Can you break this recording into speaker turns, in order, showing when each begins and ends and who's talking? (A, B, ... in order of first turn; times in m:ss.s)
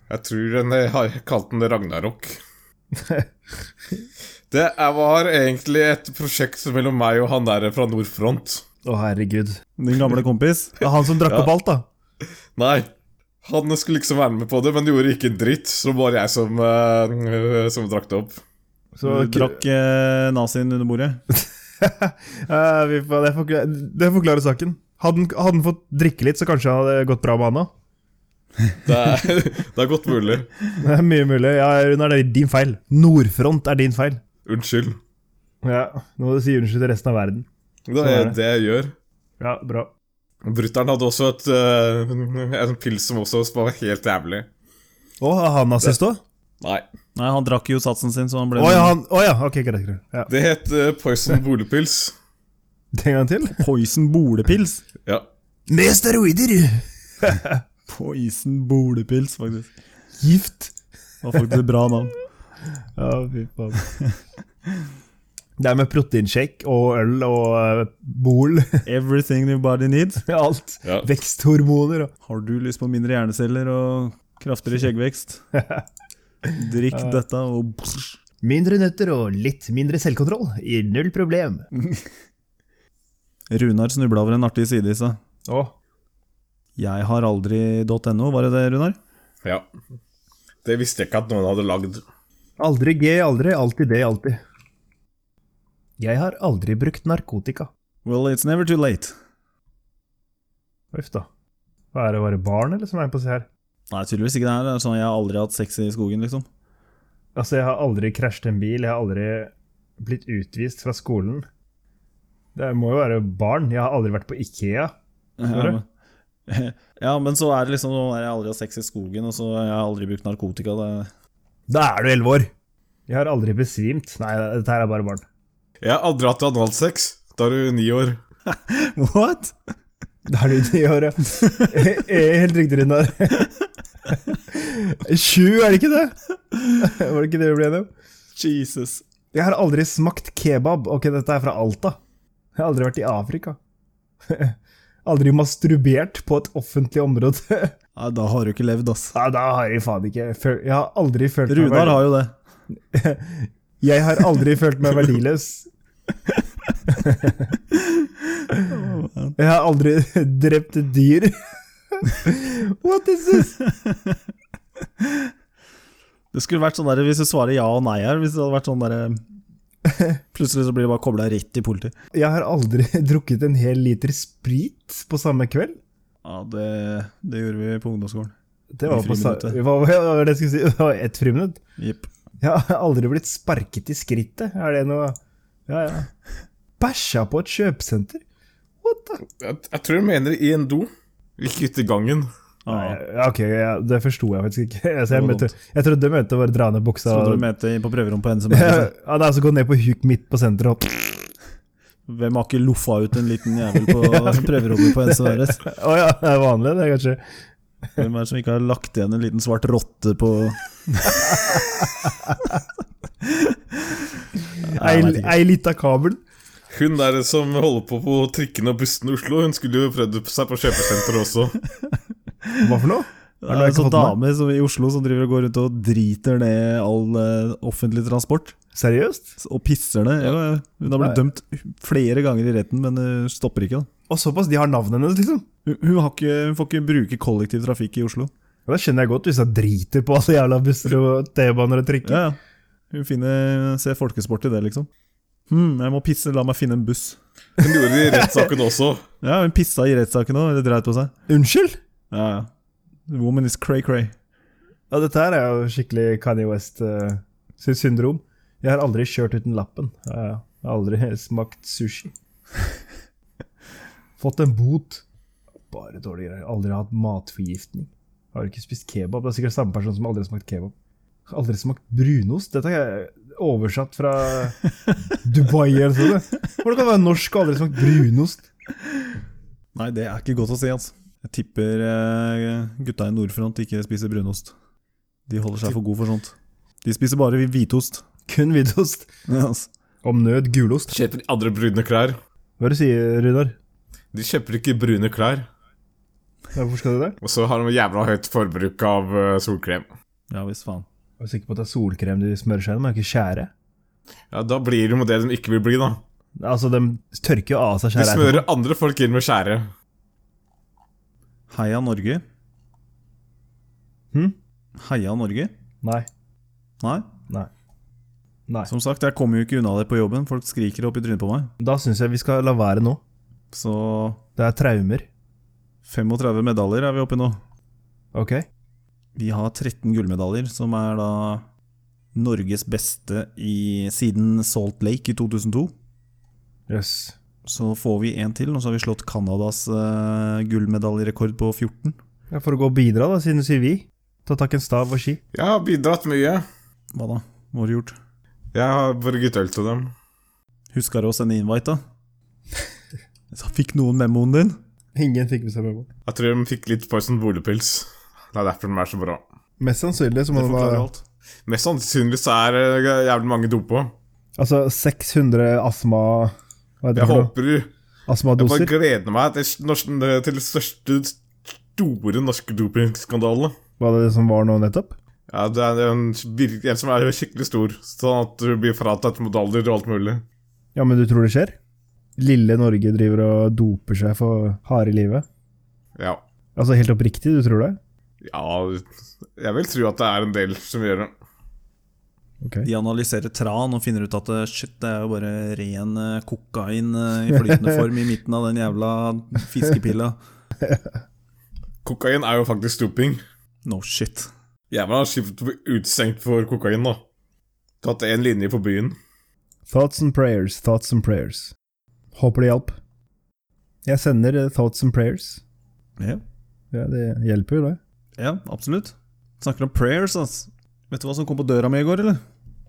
0:00.1-0:02.4 A
0:02.9-0:03.3 B
0:04.5-0:08.6 A
0:08.8-0:09.6 B
0:09.8-0:10.8 C
0:10.8-0:11.9 B
0:12.6-0:12.9 A
0:13.4-0:18.4 A
0:18.9-0:19.6 B
0:19.0-0:21.2 C
0:21.8-0:27.7 B
0:28.8-0:30.5 A
0:30.8-0:34.2 B
0:34.4-0:35.0 A
0:35.6-0:37.4 B
0:37.9-0:38.9 A
0:38.0-0:38.4 B
0:39.4-0:39.9 B
0:40.4-0:44.5 A
0:45.2-0:46.2 B
0:47.1-0:49.0 C
0:48.6-0:50.3 B
0:50.3-0:52.1 A
0:52.9-0:53.6 B
0:53.6-0:54.8 C
0:55.7-0:57.6 B
0:57.9-0:59.7 C
1:00.2-1:00.7 B
1:01.2-1:02.1 C
1:03.0-1:03.8 B
1:05.6-1:08.8 B
1:08.8-1:10.2 C
1:10.2-1:12.1 B
1:12.2-1:15.4 C
1:15.5-1:15.8 B
1:16.5-1:18.2 C
1:18.4-1:21.7 B
1:23.5-1:25.2 C
1:25.5-1:25.7 B
1:26.8-1:29.0 C
1:30.6-1:32.0 A
1:32.6-1:34.4 B
1:36.0-1:37.7 B
1:38.0-1:39.1 C
1:40.9-1:41.3 B
1:41.9-1:43.5 B
1:43.9-1:46.4 C
1:47.3-1:51.4 B
1:52.5-1:54.9 B
1:55.4-1:55.8 C
1:55.5-1:55.8 B
1:56.5-2:01.1 C
2:01.7-2:02.5 B
2:03.1-2:05.2 B
2:05.8-2:08.2 A
2:08.5-2:09.5 C
2:10.2-2:13.5 B
2:14.1-2:16.1 B
2:16.8-2:17.9 B
2:18.3-2:19.0 C
2:19.3-2:22.0 B
2:22.6-2:23.6 B
2:24.3-2:27.7 B
2:28.0-2:29.1 C
2:29.1-2:32.1 B
2:31.5-2:32.3 C
2:32.9-2:35.7 B
2:36.9-2:37.6 B
2:38.5-2:39.4 C
2:39.4-2:43.6 B
2:43.6-2:44.1 C
2:46.3-2:49.2 C
2:49.8-2:50.2 B
2:50.3-2:51.9 C
2:52.1-2:55.8 B
2:56.2-2:58.3 C
2:58.7-3:01.6 B
2:58.9-2:59.6 C
3:01.8-3:02.1 C
3:02.4-3:06.1 B
3:06.8-3:08.2 B
3:08.8-3:09.2 B
3:09.2-3:12.3 A
3:12.6-3:13.0 C
3:12.7-3:17.4 B
3:15.1-3:15.5 C
3:17.1-3:18.9 C
3:18.5-3:21.3 B
3:22.1-3:25.6 C
3:23.7-3:27.2 B
3:28.0-3:31.6 C
3:31.3-3:32.3 B
3:33.2-3:33.9 C
3:34.6-3:35.4 C
3:34.7-3:36.2 B
3:36.7-3:41.6 A
3:42.6-3:44.2 B
3:43.4-3:48.6 C
3:48.7-3:49.3 B
3:49.4-3:53.9 C
3:54.1-3:55.4 B
3:55.6-3:58.3 C
3:58.7-4:02.2 B
4:02.0-4:02.4 C
4:02.9-4:04.9 C
4:05.5-4:07.2 C
4:07.6-4:08.5 B
4:07.6-4:09.0 A
4:09.2-4:11.1 C
4:11.3-4:11.8 B
4:12.1-4:12.5 C
4:13.1-4:14.1 C
4:14.9-4:22.1 B
4:24.2-4:25.0 B
4:25.7-4:30.7 B
4:31.3-4:34.6 B
4:35.2-4:38.4 B
4:39.7-4:44.5 C
4:45.3-4:48.0 C
4:48.3-4:49.1 B
4:49.3-4:49.7 C
4:50.0-4:50.9 B
4:50.9-4:52.2 A
4:52.6-4:53.6 B
4:54.1-4:55.5 A
4:56.5-4:57.2 B
4:57.2-4:59.9 A
5:00.3-5:00.8 C
5:01.2-5:03.5 B
5:04.3-5:06.0 A
5:06.4-5:08.4 B
5:07.9-5:09.7 A
5:11.5-5:12.2 C
5:14.8-5:15.5 C
5:15.8-5:16.1 B
5:16.8-5:17.1 C
5:18.7-5:21.5 C
5:21.6-5:23.0 B
5:23.5-5:24.2 C
5:24.4-5:25.1 B
5:25.8-5:27.4 C
5:28.1-5:28.4 B
5:29.2-5:31.4 C
5:32.1-5:35.7 C
5:36.7-5:37.1 B
5:37.4-5:42.0 C
5:42.3-5:45.2 B
5:45.3-5:46.4 A
5:46.9-5:47.9 C
5:48.5-5:49.9 A
5:50.7-5:51.8 C
5:53.3-5:54.6 C
5:54.9-5:55.9 B
5:56.0-5:59.2 A
5:59.6-6:00.9 B
6:00.3-6:01.0 C
6:01.4-6:03.9 A
6:04.4-6:07.3 B
6:07.0-6:07.7 A
6:08.1-6:08.7 B
6:08.4-6:13.5 A
6:13.8-6:15.0 B
6:15.3-6:20.2 A
6:20.7-6:21.6 B
6:22.2-6:25.2 B
6:26.6-6:27.8 B
6:28.2-6:28.8 A
6:29.4-6:31.1 A
6:32.4-6:32.7 B
6:32.6-6:40.2 C
6:41.8-6:43.2 A
6:43.6-6:44.3 C
6:44.7-6:47.0 A
6:47.8-6:49.0 A
6:49.7-6:51.5 B
6:52.1-6:52.8 B
6:53.8-6:55.4 B
6:56.7-6:57.8 B
6:58.2-7:02.2 C